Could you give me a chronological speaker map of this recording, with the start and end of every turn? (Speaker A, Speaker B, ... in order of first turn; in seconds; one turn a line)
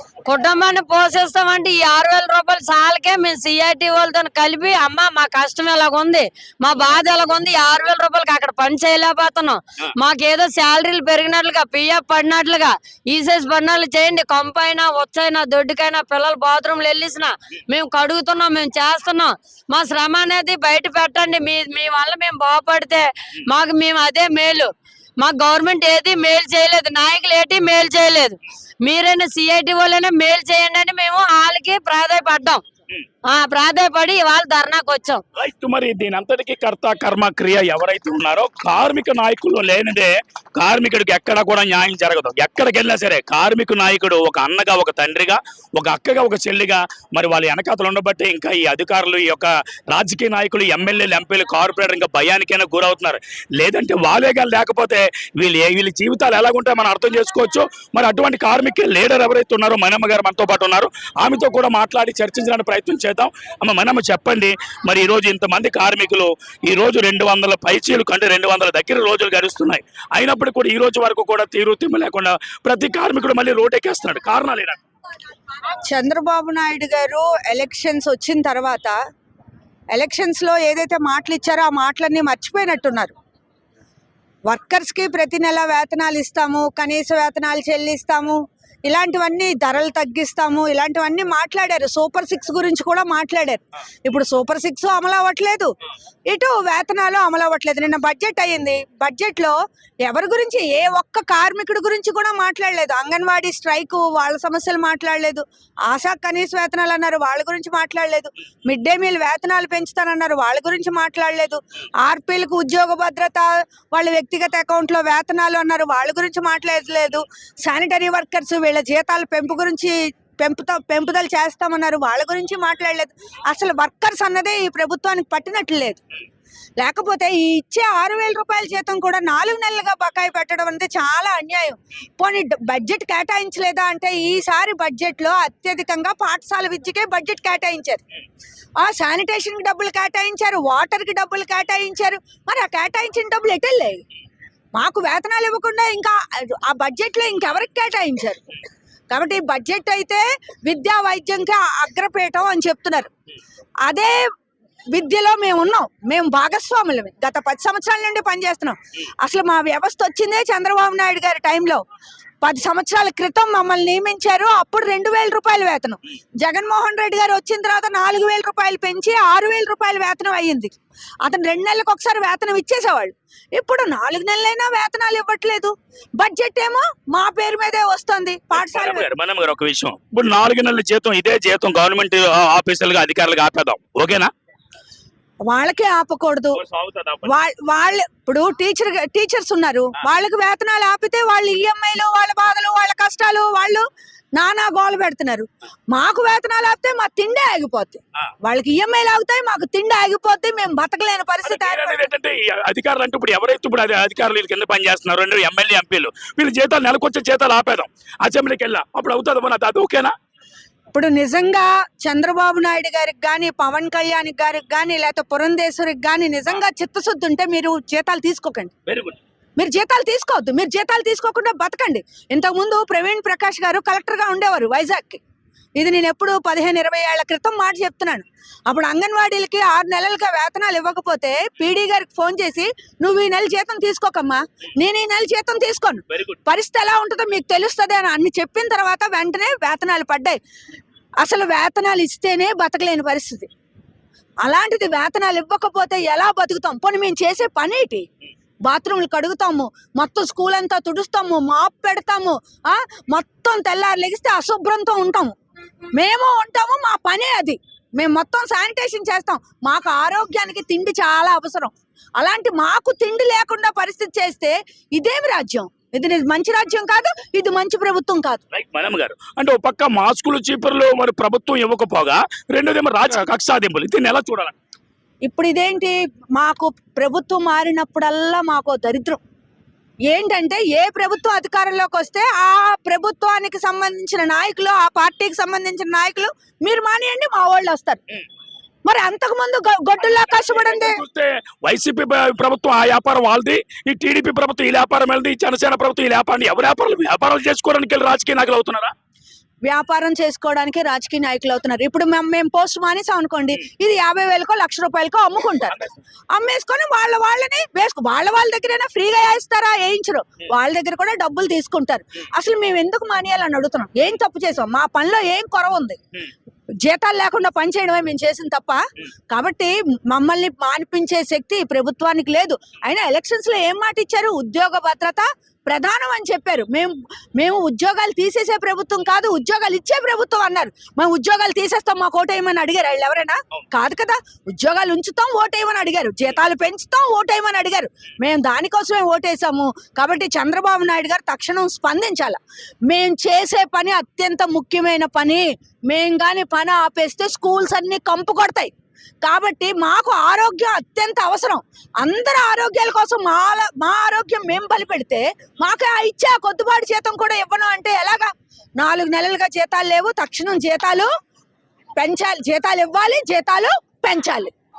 Speaker A: 0.2-32.6
Speaker A: 33.3-35.2
Speaker B: 35.4-74.8
Speaker C: 75.8-79.0
Speaker C: 79.9-83.1
Speaker C: 84.5-95.8
Speaker C: 96.3-126.0
Speaker C: 126.8-138.0
Speaker C: 138.8-144.0
Speaker C: 144.8-148.4
Speaker C: 149.1-153.1
Speaker C: 153.8-154.2
Speaker C: 154.9-161.8
Speaker C: 162.4-179.1
Speaker B: 178.5-184.3
Speaker C: 185.5-186.6
Speaker B: 186.6-187.3
Speaker C: 187.3-202.1
Speaker B: 201.4-210.1
Speaker C: 210.9-218.7
Speaker B: 218.9-219.2
Speaker C: 219.6-225.2
Speaker C: 225.8-240.4
Speaker B: 236.1-236.4
Speaker C: 241.2-243.5
Speaker C: 244.4-248.1
Speaker C: 248.7-255.3
Speaker C: 255.9-268.4
Speaker B: 268.5-274.6
Speaker C: 275.2-279.2
Speaker C: 280.1-288.0
Speaker C: 288.9-291.0
Speaker B: 290.0-298.9
Speaker C: 299.6-305.8
Speaker B: 305.7-305.9
Speaker C: 306.3-316.0
Speaker C: 316.8-348.7
Speaker C: 349.2-361.1
Speaker C: 362.0-364.5